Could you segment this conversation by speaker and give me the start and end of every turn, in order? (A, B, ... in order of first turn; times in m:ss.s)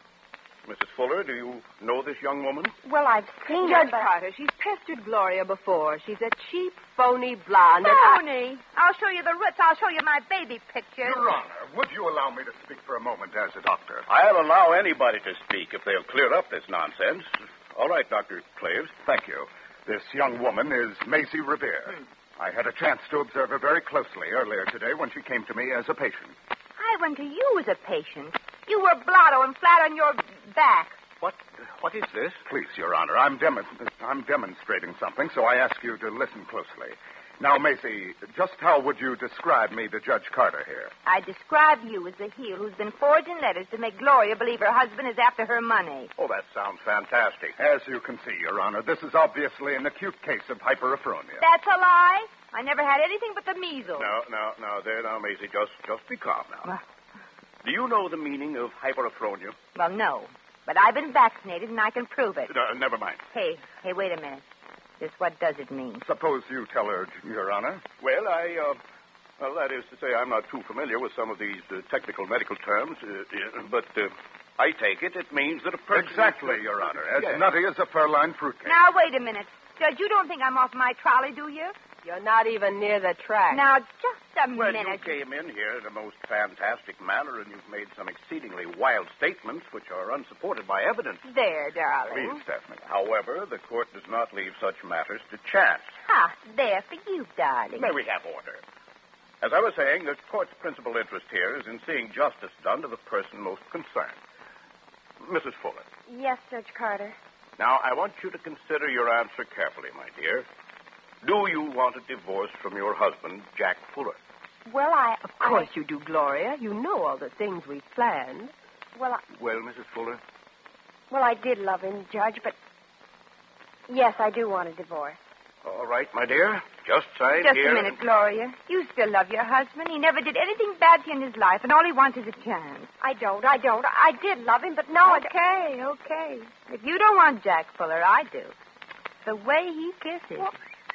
0:00.6-0:02.8 A
0:02.8-0:04.1 B
0:03.6-0:08.2 C
0:07.8-0:11.2 D
0:11.0-0:14.1 E
0:14.1-0:19.0 A
0:19.0-0:26.4 E
0:26.8-0:31.0 D
0:31.2-0:32.4 A
0:32.5-0:40.9 E
0:41.0-0:46.1 D
0:46.2-0:47.6 A
0:47.6-0:51.4 E
0:51.4-0:54.1 D
0:54.0-0:56.7 A
0:57.6-0:59.6 A
0:59.8-1:02.5 D
1:02.5-1:03.2 A
1:03.3-1:04.4 D
1:05.0-1:06.0 D
1:06.0-1:07.8 E
1:08.0-1:08.8 A
1:09.4-1:17.4 A
1:15.9-1:18.8 E
1:18.7-1:21.8 D
1:22.0-1:23.6 C
1:23.5-1:25.2 D
1:24.5-1:31.2 A
1:31.2-1:32.4 D
1:32.1-1:32.8 E
1:32.8-1:35.9 A
1:36.1-1:37.9 D
1:37.8-1:38.6 A
1:39.4-1:44.2 A
1:45.2-1:45.9 A
1:46.1-1:47.2 B
1:47.6-1:50.5 A
1:51.2-1:54.2 A
1:54.7-1:55.7 B
1:55.3-1:58.5 C
1:59.0-1:59.2 B
1:59.3-2:00.2 A
2:01.1-2:02.6 B
2:03.9-2:05.2 B
2:05.6-2:08.0 A
2:07.4-2:12.9 D
2:13.0-2:15.3 B
2:15.0-2:18.6 D
2:19.2-2:20.5 D